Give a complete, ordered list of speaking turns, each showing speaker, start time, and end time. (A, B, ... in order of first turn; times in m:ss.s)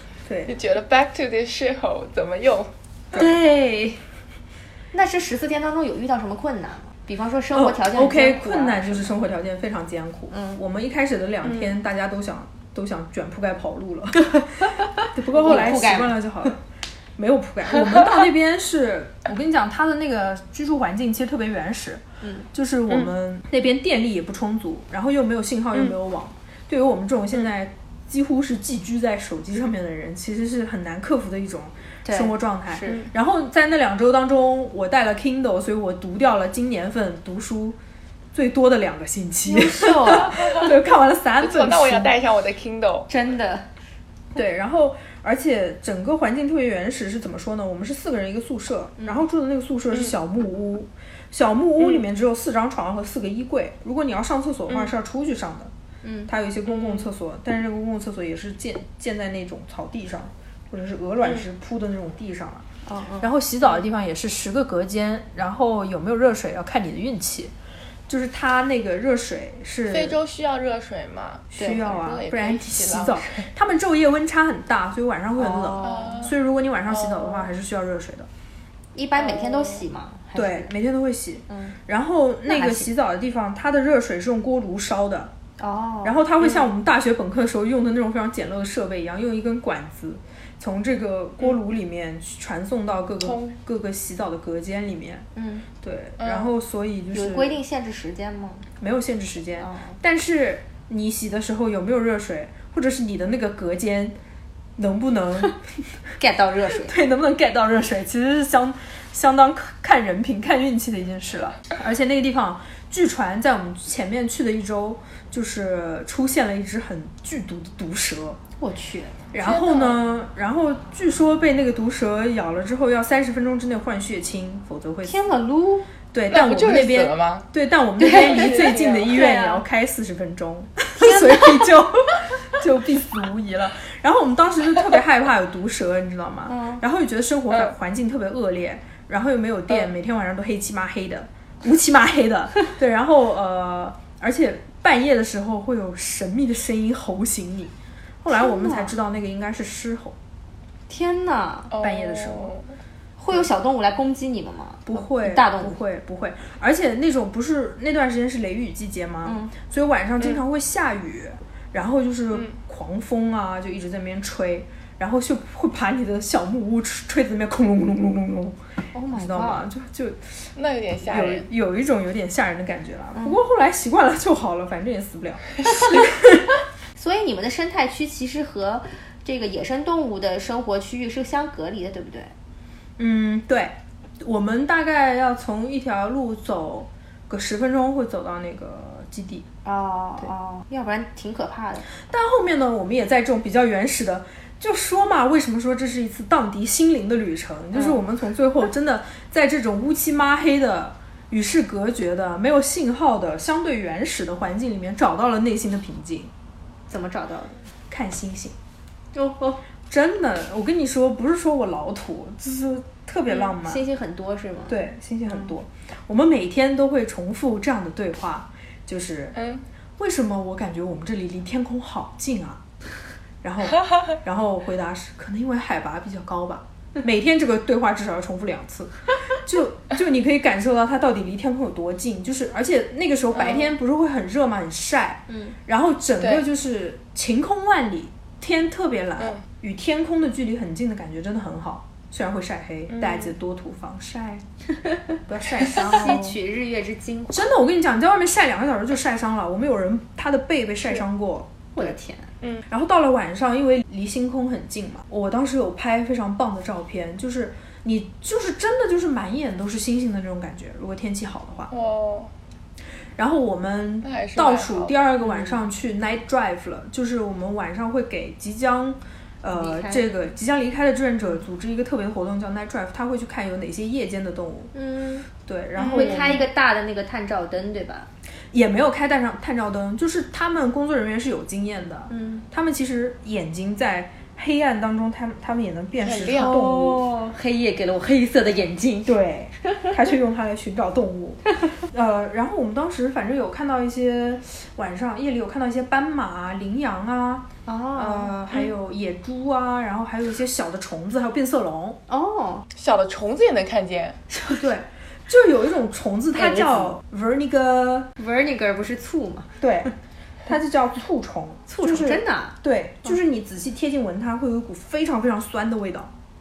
0:00.2-0:00.5 A
0:00.5-0:02.7 B
0:03.1-0:03.4 A
0:03.1-0:04.0 C
0:04.9-0:09.1 C
0:07.5-0:16.6 A
0:10.3-0:10.6 C
0:11.4-0:11.8 B
0:14.6-0:16.2 C
0:17.2-0:37.8 A
0:32.0-0:33.0 C
0:38.3-0:42.2 A
0:39.4-0:40.7 C
0:41.4-0:43.1 B
0:43.1-0:43.6 C
0:44.3-0:55.7 A
0:56.0-0:56.3 C
0:56.3-1:02.7 A
0:56.7-0:57.1 B
1:02.8-1:03.3 C
1:03.2-1:07.5 A
1:08.1-1:10.2 A
1:09.9-1:13.5 B
1:11.5-1:18.3 A
1:11.6-1:11.9 C
1:15.4-1:16.2 C
1:15.8-1:16.3 B
1:16.9-1:17.5 B
1:18.9-1:20.7 C
1:19.2-1:19.8 B
1:20.3-1:25.3 A
1:21.5-1:21.8 C
1:22.4-1:22.9 C
1:25.6-1:26.2 C
1:26.0-1:35.3 A
1:33.2-1:33.6 B
1:35.4-1:35.6 C
1:35.8-1:37.6 A
1:36.2-1:36.5 B
1:37.1-1:38.7 C
1:38.8-1:44.2 A
1:39.6-1:40.0 C
1:44.8-1:45.6 A
1:46.2-1:46.9 C
1:46.7-1:58.4 A
1:58.6-1:59.2 C
1:59.3-2:05.2 A
1:59.5-1:59.9 B
2:05.0-2:05.9 C
2:06.1-2:30.2 A
2:06.3-2:07.4 B
2:08.0-2:09.6 C
2:08.1-2:09.3 B
2:11.0-2:11.7 C
2:16.5-2:16.8 C
2:28.3-2:28.9 C
2:30.9-2:31.8 C
2:31.7-2:32.7 B
2:31.8-2:32.5 A
2:33.2-2:35.8 C
2:34.8-2:48.6 A
2:39.2-2:39.5 C
2:48.9-2:49.7 C
2:49.1-2:50.5 A
2:50.6-2:51.5 B
2:51.1-2:56.5 A
2:57.0-3:02.3 C
3:03.0-3:09.5 A
3:09.6-3:11.9 C
3:12.0-3:26.3 A
3:17.7-3:18.0 C
3:26.9-3:27.6 C
3:27.9-3:28.6 A
3:29.1-3:29.6 C
3:29.9-3:33.8 A
3:33.6-3:34.8 C
3:34.7-3:39.4 A
3:39.4-3:39.6 B
3:40.0-3:42.6 A
3:43.4-4:04.4 A
3:55.3-3:55.6 C
3:56.2-3:56.4 B
4:02.9-4:03.3 B
4:04.8-4:07.5 C
4:05.2-4:06.4 A
4:07.3-4:11.8 A
4:11.8-4:12.3 C
4:12.7-4:21.7 A
4:21.7-4:22.3 B
4:23.2-4:34.7 A
4:24.0-4:25.0 B
4:25.2-4:25.6 C
4:29.5-4:30.1 C
4:34.7-4:35.3 C
4:35.4-4:36.5 A
4:35.8-4:36.4 B
4:35.9-4:38.1 C
4:38.5-4:47.0 A
4:42.1-4:42.4 C
4:46.0-4:46.6 B
4:46.4-4:49.2 C
4:49.0-5:02.0 A
4:57.6-4:58.3 C
5:02.1-5:02.6 C
5:02.8-5:04.2 B
5:04.3-5:04.6 C
5:04.6-5:08.1 A
5:06.4-5:06.9 C
5:08.2-5:09.5 C
5:09.6-5:09.9 A
5:10.4-5:16.1 A
5:11.7-5:12.6 C